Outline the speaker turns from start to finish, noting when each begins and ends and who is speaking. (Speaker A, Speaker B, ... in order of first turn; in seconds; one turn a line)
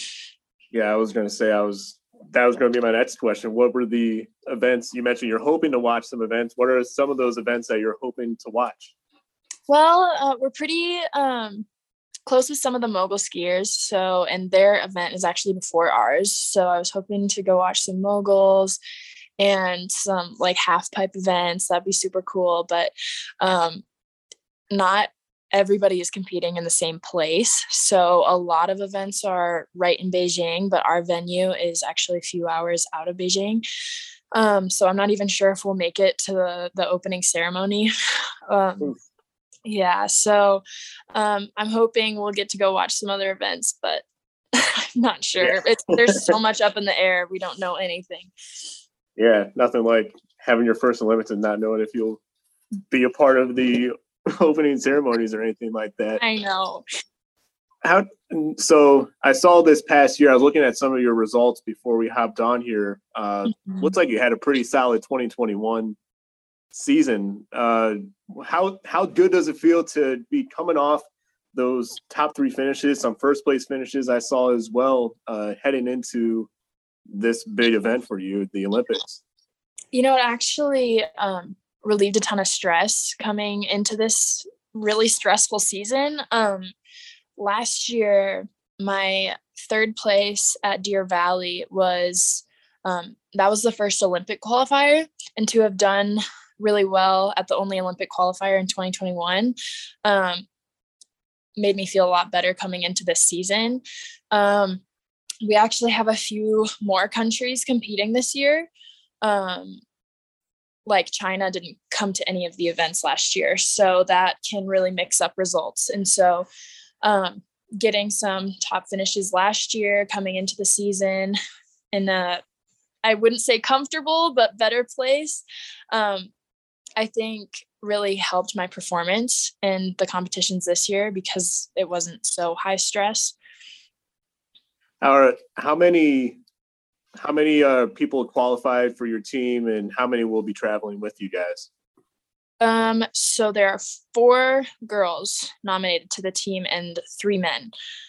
Speaker A: 0.7-8.9
Speaker B: 9.7-11.7
Speaker B: 12.2-18.8
Speaker B: 19.4-23.8
Speaker B: 24.7-33.6
Speaker B: 34.3-37.9
Speaker B: 38.5-39.0
Speaker B: 39.6-48.3
Speaker A: 45.4-46.3
Speaker A: 49.2-52.2
Speaker A: 52.9-56.2
Speaker B: 56.2-56.8
Speaker A: 57.8-66.0
Speaker B: 63.5-63.9
Speaker A: 66.7-76.5
Speaker A: 77.1-79.2
Speaker B: 79.9-86.7
Speaker B: 87.3-100.5
Speaker B: 101.5-104.8
Speaker B: 105.4-108.7
Speaker B: 109.2-109.8
Speaker B: 110.8-116.5
Speaker B: 117.0-121.4
Speaker B: 121.9-122.4
Speaker B: 123.0-126.3
Speaker B: 127.0-133.3
Speaker A: 135.0-136.4
Speaker A: 137.2-141.7
Speaker B: 142.6-147.7